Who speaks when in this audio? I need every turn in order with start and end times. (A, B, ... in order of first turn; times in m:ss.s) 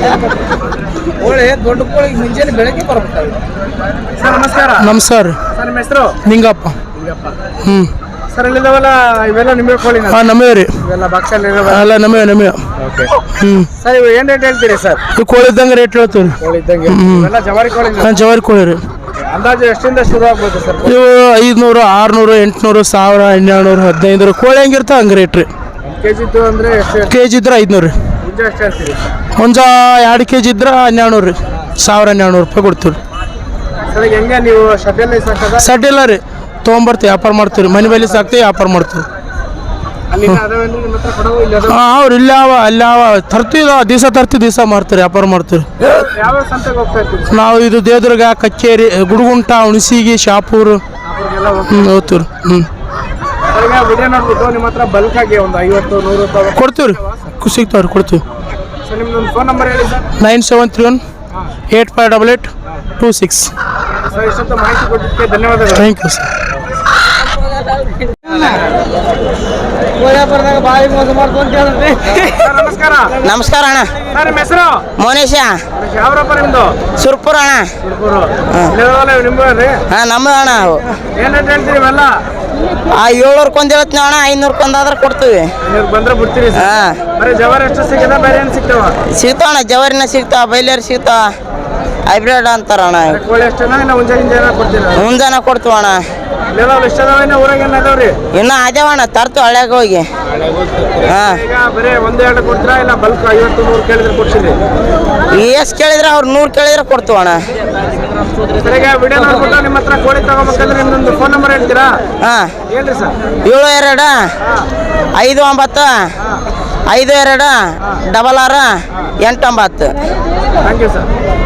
0:01.2-0:03.4 A
0:04.2-0:04.9 A
0:04.8-0:05.4 B
0:05.5-0:06.2 A
0:06.2-0:06.8 B
0:07.0-0:07.3 A
0:07.6-0:07.9 B
0:08.3-0:10.2 A
0:10.1-0:10.8 B
0:10.8-0:11.9 A
0:11.6-0:12.6 B
0:12.8-0:13.1 A
0:13.3-0:13.7 B
0:13.8-0:15.0 A
0:15.2-0:17.3 B
0:16.4-0:18.1 A
0:18.0-0:18.8 B
0:19.2-0:20.9 A
0:20.8-0:25.5 B
0:25.8-0:27.1 A
0:27.1-0:27.9 B
0:28.2-0:29.0 A
0:29.4-0:33.0 B
0:33.9-0:35.7 A
0:35.6-0:39.0 B
0:37.9-0:38.2 A
0:40.1-0:41.8 A
0:41.7-0:45.7 B
0:45.8-0:47.3 A
0:47.3-0:50.8 B
0:51.0-0:52.0 A
0:51.7-0:52.7 B
0:53.5-0:56.6 A
0:56.6-0:58.2 B
0:58.8-1:00.1 A
1:00.2-1:01.0 B
1:01.7-1:03.5 B
1:04.0-1:05.8 A
1:05.7-1:06.3 B
1:10.1-1:11.2 A
1:10.6-1:12.2 C
1:12.3-1:13.2 A
1:13.2-1:14.0 C
1:14.1-1:14.9 A
1:15.0-1:15.7 C
1:15.7-1:16.8 A
1:16.9-1:17.8 C
1:17.8-1:19.8 A
1:19.9-1:20.9 C
1:21.1-1:22.2 A
1:22.9-1:25.5 C
1:25.6-1:29.0 A
1:26.5-1:27.1 C
1:29.0-1:31.3 C
1:32.1-1:33.2 C
1:33.1-1:35.1 A
1:35.0-1:36.0 C
1:36.5-1:38.2 A
1:38.3-1:40.1 C
1:40.8-1:44.6 A
1:41.0-1:41.4 C
1:45.3-1:47.5 C
1:48.6-1:52.0 A
1:52.2-1:52.6 C
1:52.7-1:53.2 A
1:53.4-1:54.3 C
1:55.2-1:56.1 C
1:56.9-2:00.0 C
2:00.6-2:01.1 A